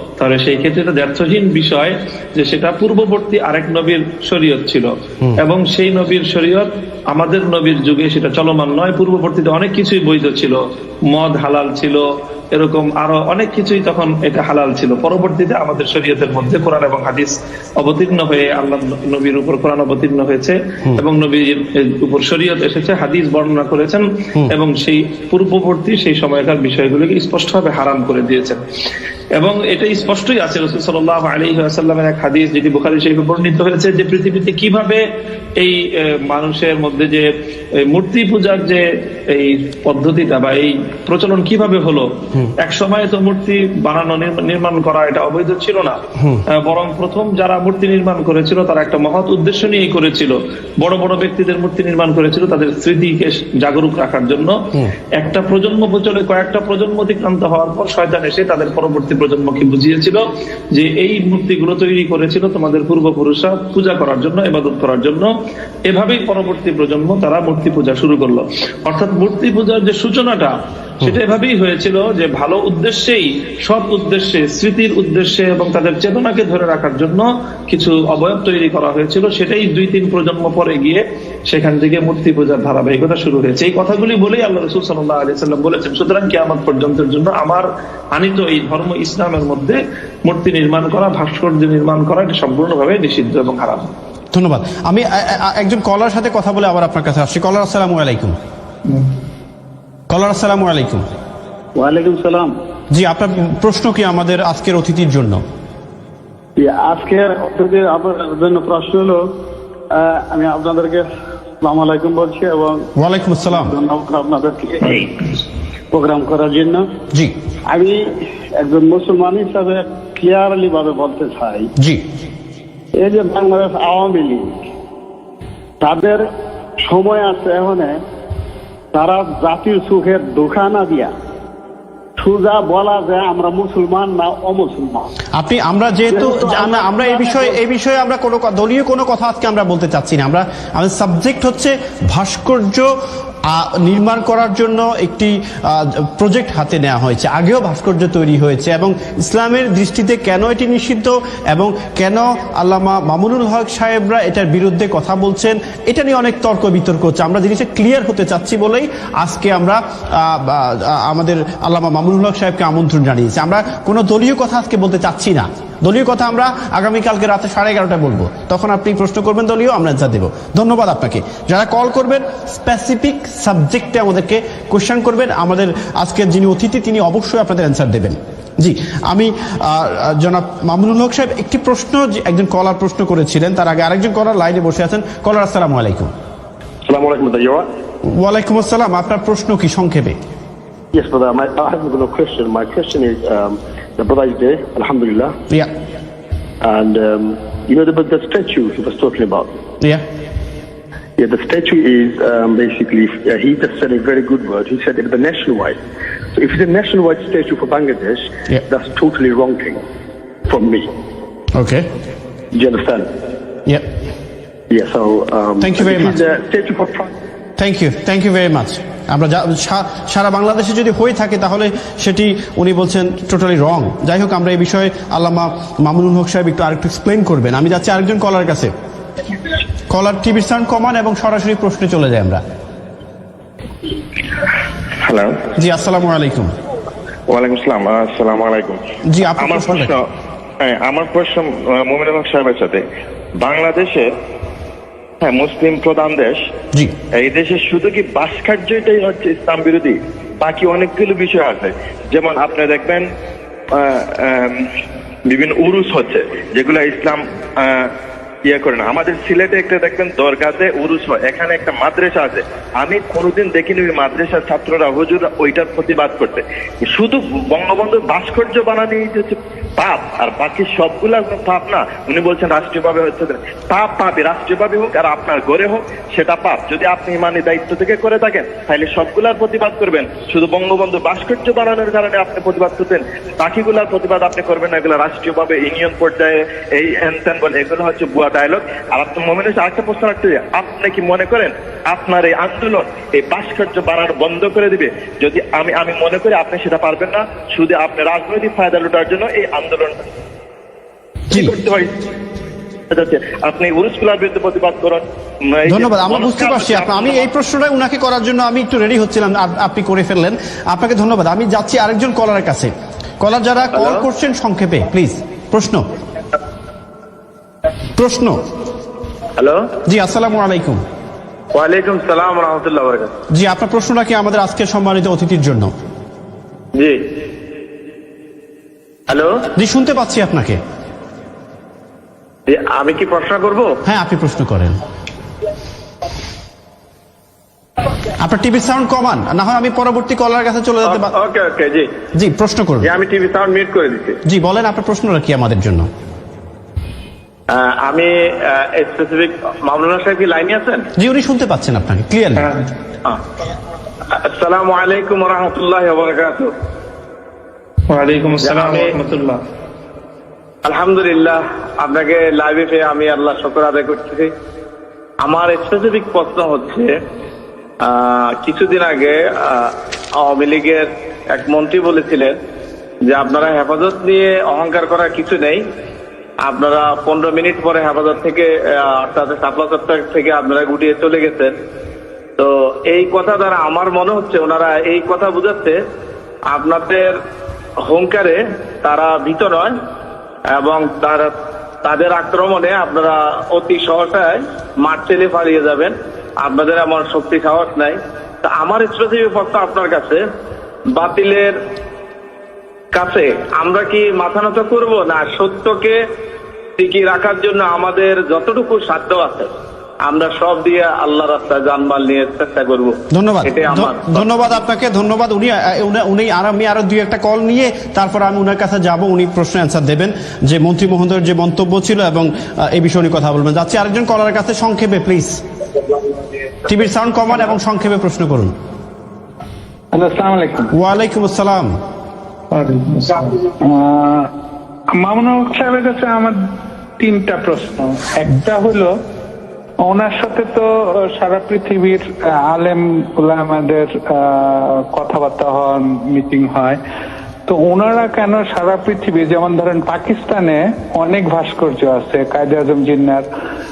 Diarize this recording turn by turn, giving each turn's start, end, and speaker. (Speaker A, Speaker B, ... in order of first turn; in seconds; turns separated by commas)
Speaker A: 0.2-10.6, Speaker A: 11.1-28.6, Speaker A: 29.4-35.0, Speaker A: 35.6-46.0, Speaker B: 46.2-46.4, Speaker A: 46.5-65.3, Speaker A: 65.9-93.9, Speaker B: 94.3-98.3, Speaker B: 100.1-101.0, Speaker C: 101.8-102.5, Speaker B: 102.9-105.4, Speaker C: 106.6-109.3, Speaker C: 109.9-111.1, Speaker C: 111.6-112.9, Speaker B: 113.0-113.7, Speaker C: 113.5-115.1, Speaker C: 115.9-116.9, Speaker C: 117.7-121.7, Speaker B: 121.8-122.0, Speaker C: 123.0-124.6, Speaker C: 125.8-126.2, Speaker C: 126.8-128.0, Speaker C: 128.9-131.1, Speaker C: 132.2-135.1, Speaker B: 135.3-142.9, Speaker C: 136.1-137.5, Speaker B: 143.4-186.1, Speaker D: 186.8-187.7, Speaker B: 188.1-190.2, Speaker D: 190.9-195.3, Speaker D: 196.6-199.6, Speaker D: 201.2-205.8, Speaker D: 206.3-209.8, Speaker D: 210.5-210.9, Speaker B: 211.5-211.9, Speaker D: 212.5-213.1, Speaker D: 214.7-217.1, Speaker B: 215.6-216.2, Speaker B: 217.6-228.7, Speaker B: 229.9-232.4, Speaker E: 235.0-235.4, Speaker B: 235.6-236.5, Speaker E: 237.3-238.8, Speaker B: 239.1-239.9, Speaker E: 239.4-240.1, Speaker E: 240.6-242.8, Speaker E: 243.4-244.1, Speaker E: 245.2-246.4, Speaker E: 247.1-253.1, Speaker E: 253.7-254.7, Speaker E: 255.2-257.9, Speaker E: 258.4-300.0, Speaker E: 301.3-302.0, Speaker E: 302.9-307.2, Speaker B: 305.7-315.9, Speaker F: 313.7-314.0, Speaker B: 317.9-318.4, Speaker F: 319.4-319.7, Speaker B: 319.9-320.8, Speaker F: 321.5-323.1, Speaker B: 323.3-325.7, Speaker F: 326.7-327.0, Speaker F: 329.1-329.4, Speaker B: 329.6-330.6, Speaker F: 332.5-333.8, Speaker B: 333.8-334.8, Speaker B: 338.2-341.1, Speaker F: 340.8-341.9, Speaker B: 342.1-342.9, Speaker F: 342.8-344.2, Speaker B: 344.3-345.9, Speaker F: 347.5-350.9, Speaker B: 351.0-352.5, Speaker A: 352.4-352.6, Speaker F: 354.1-356.5, Speaker A: 357.9-359.4, Speaker F: 358.4-358.9, Speaker F: 360.6-364.3, Speaker F: 365.2-366.9, Speaker F: 367.8-372.4, Speaker F: 373.1-375.6, Speaker F: 376.4-381.5, Speaker F: 382.4-385.8, Speaker F: 386.5-387.2, Speaker F: 387.8-389.8, Speaker F: 390.5-400.2, Speaker F: 400.9-401.6, Speaker F: 402.9-406.0, Speaker F: 406.8-409.5, Speaker F: 410.0-414.3, Speaker B: 413.1-425.4, Speaker B: 426.6-428.5, Speaker G: 429.9-430.7, Speaker B: 430.7-431.7, Speaker A: 432.5-433.4, Speaker G: 433.6-434.3, Speaker G: 434.9-436.4, Speaker G: 437.0-438.9, Speaker G: 439.8-446.8, Speaker G: 447.5-453.3